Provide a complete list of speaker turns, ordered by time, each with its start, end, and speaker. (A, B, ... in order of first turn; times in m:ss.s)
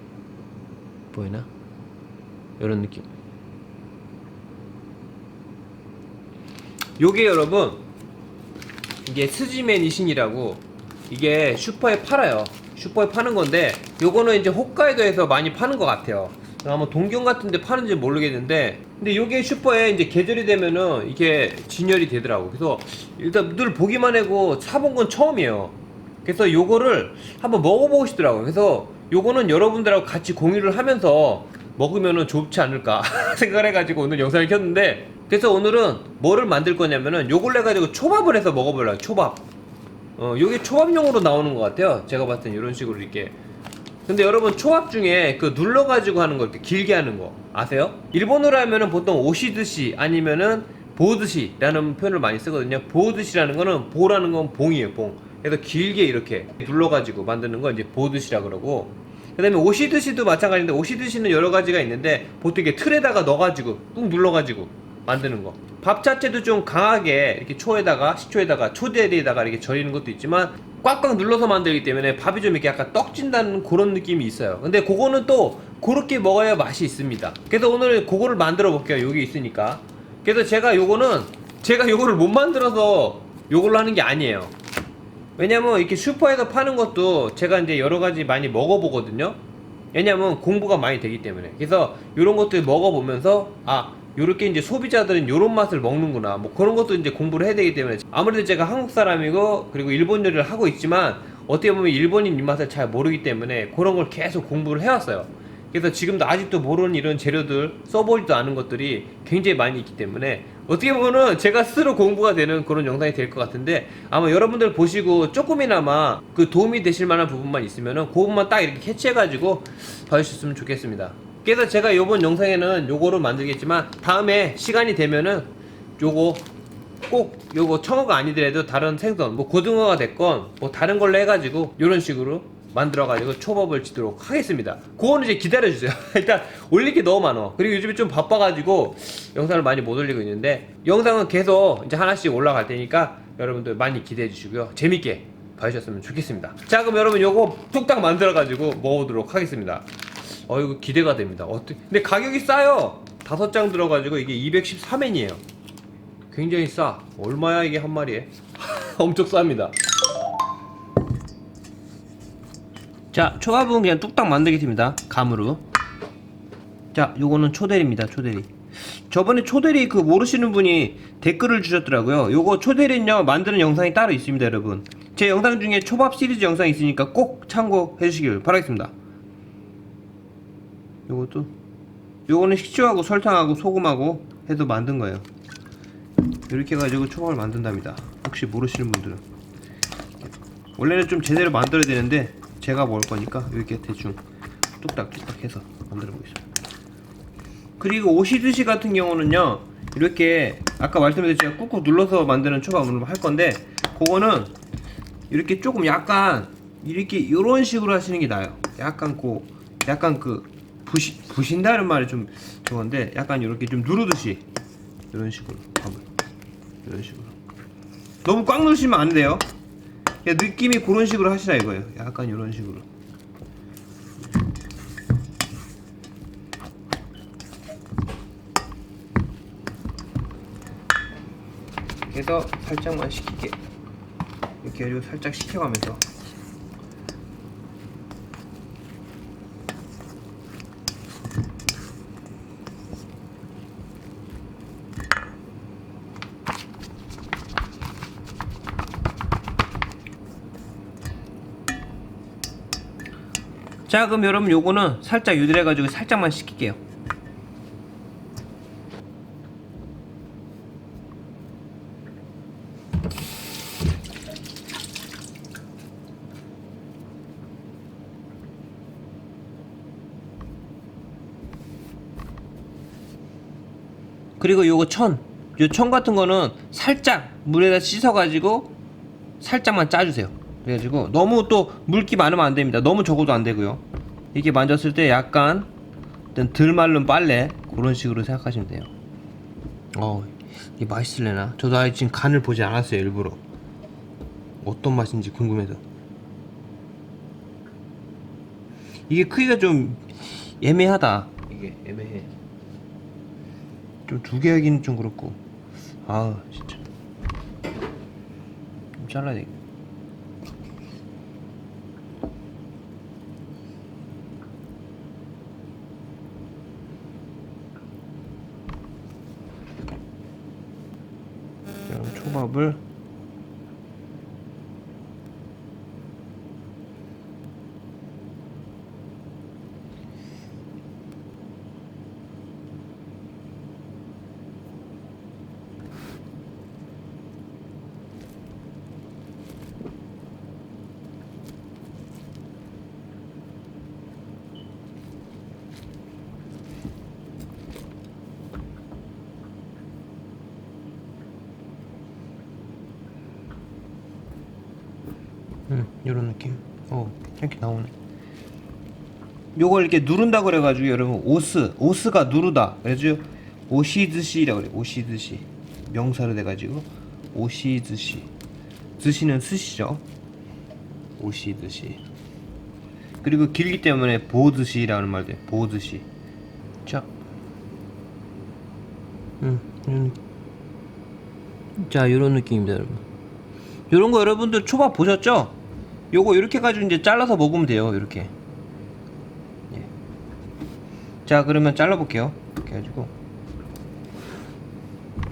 0:01.1-0:01.5 A
0:02.6-0:03.1 A
0:07.0-0:07.8 A
0:09.0-0:39.5 A
0:40.2-0:43.4 A
0:44.1-1:24.5 A
1:25.4-1:29.4 A
1:29.9-2:06.5 A
2:07.1-2:29.9 A
2:30.5-2:35.4 A
2:36.3-2:39.7 A
2:43.1-2:45.6 A
2:46.9-2:58.9 A
3:01.1-3:01.5 A
3:02.3-3:05.3 A
3:06.5-3:09.2 A
3:10.2-3:14.2 A
3:14.8-3:16.4 A
3:17.8-3:24.5 A
3:25.3-3:34.4 A
3:35.1-3:36.0 A
3:36.8-3:37.4 A
3:38.2-3:39.4 A
3:40.2-3:42.9 A
3:52.1-3:53.6 A
3:54.6-3:56.0 A
4:13.9-4:16.8 A
4:34.4-4:38.7 A
4:39.4-4:43.8 A
4:44.3-4:45.7 A
4:46.3-4:48.9 A
4:49.9-4:53.4 A
4:54.6-4:55.8 A
4:59.1-5:02.3 A
5:04.1-5:05.4 A
5:06.0-5:06.8 A
5:09.0-5:09.5 A
5:21.9-5:22.8 A
5:55.7-5:57.9 A
5:59.6-6:08.3 A
6:09.0-6:10.0 A
6:11.2-6:12.0 A
6:13.2-6:16.1 A
6:16.8-6:17.1 A
6:19.4-6:20.2 A
6:21.8-6:23.0 A
6:23.9-6:25.6 A
6:26.1-6:28.3 A
6:31.3-6:33.1 A